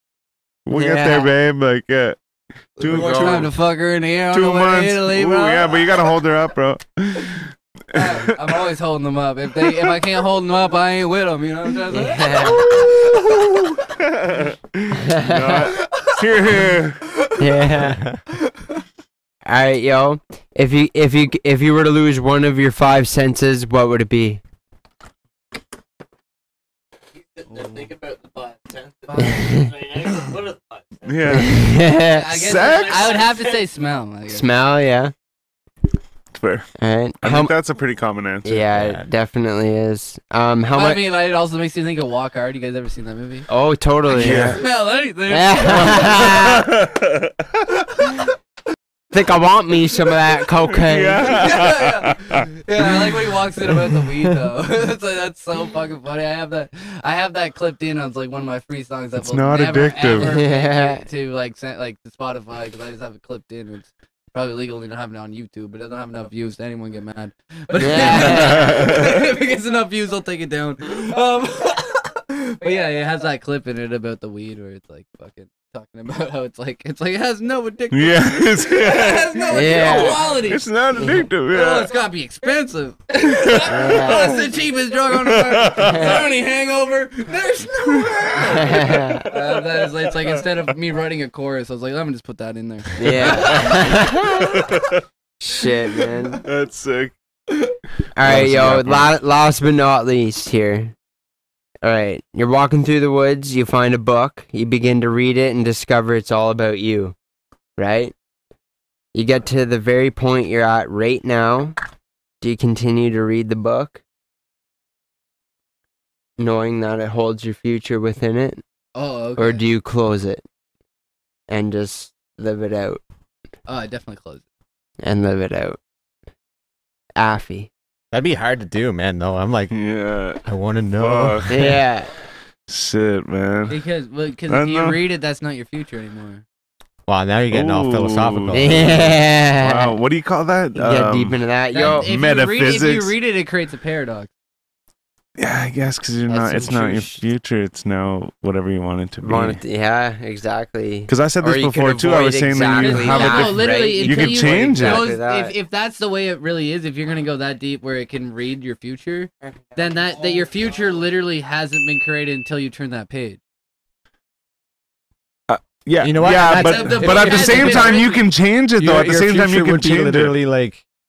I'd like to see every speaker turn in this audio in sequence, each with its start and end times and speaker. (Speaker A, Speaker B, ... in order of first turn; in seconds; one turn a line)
Speaker A: 0.6-2.2
Speaker B: 0.7-1.3
Speaker A: 2.8-3.5
Speaker B: 2.8-3.5
Speaker C: 2.9-5.7
Speaker A: 4.3-8.4
Speaker C: 7.9-13.7
Speaker B: 11.9-12.8
Speaker A: 13.9-17.0
Speaker B: 15.0-15.7
Speaker C: 17.2-17.6
Speaker B: 17.4-18.0
Speaker D: 17.8-18.2
Speaker B: 19.4-24.4
Speaker E: 27.1-31.5
Speaker C: 27.5-27.9
Speaker B: 29.2-29.7
Speaker A: 31.0-31.6
Speaker B: 31.3-32.5
Speaker C: 32.0-34.5
Speaker A: 32.4-33.1
Speaker E: 32.5-33.6
Speaker B: 34.3-35.1
Speaker A: 36.3-36.7
Speaker B: 36.8-37.5
Speaker A: 37.2-38.7
Speaker B: 38.4-41.0
Speaker D: 38.7-39.1
Speaker C: 40.7-43.5
Speaker B: 43.5-44.6
Speaker A: 44.1-44.6
Speaker C: 44.2-46.5
Speaker B: 45.3-46.7
Speaker A: 46.1-47.6
Speaker C: 48.0-48.3
Speaker B: 49.1-51.4
Speaker A: 50.7-53.1
Speaker C: 51.2-80.6
Speaker A: 59.1-60.4
Speaker B: 60.2-61.0
Speaker B: 67.8-68.9
Speaker A: 67.9-69.2
Speaker A: 77.9-81.9
Speaker B: 79.5-80.3
Speaker B: 80.9-81.3
Speaker C: 81.5-93.9
Speaker A: 83.4-84.4
Speaker B: 83.7-84.4
Speaker A: 85.1-86.2
Speaker B: 85.8-86.2
Speaker A: 87.8-89.3
Speaker B: 88.4-89.3
Speaker B: 93.0-94.6
Speaker A: 93.1-93.8
Speaker A: 94.3-95.0
Speaker B: 95.4-96.4
Speaker A: 96.3-97.1
Speaker B: 98.2-100.9
Speaker D: 98.2-99.1
Speaker A: 98.3-99.0
Speaker B: 101.8-107.2
Speaker B: 107.8-108.1
Speaker B: 109.1-111.7
Speaker B: 112.4-114.0
Speaker B: 116.4-118.6
Speaker C: 118.9-119.6
Speaker B: 119.4-120.4
Speaker B: 121.5-123.0
Speaker C: 123.7-124.4
Speaker B: 125.0-125.8
Speaker B: 127.2-127.7
Speaker D: 128.1-129.7
Speaker A: 129.7-131.7
Speaker D: 130.4-131.8
Speaker B: 131.5-132.1
Speaker A: 132.7-133.8
Speaker C: 133.7-136.4
Speaker A: 134.5-135.0
Speaker D: 137.1-139.2
Speaker A: 137.5-138.7
Speaker B: 138.5-139.9
Speaker A: 139.6-141.4
Speaker B: 140.8-142.1
Speaker C: 141.7-144.3
Speaker A: 141.9-143.1
Speaker A: 145.4-149.6
Speaker B: 146.3-147.2
Speaker B: 149.2-155.5
Speaker A: 151.1-155.1
Speaker C: 152.7-163.4
Speaker A: 165.5-170.4
Speaker D: 166.0-168.0
Speaker C: 166.3-168.2
Speaker D: 168.8-170.8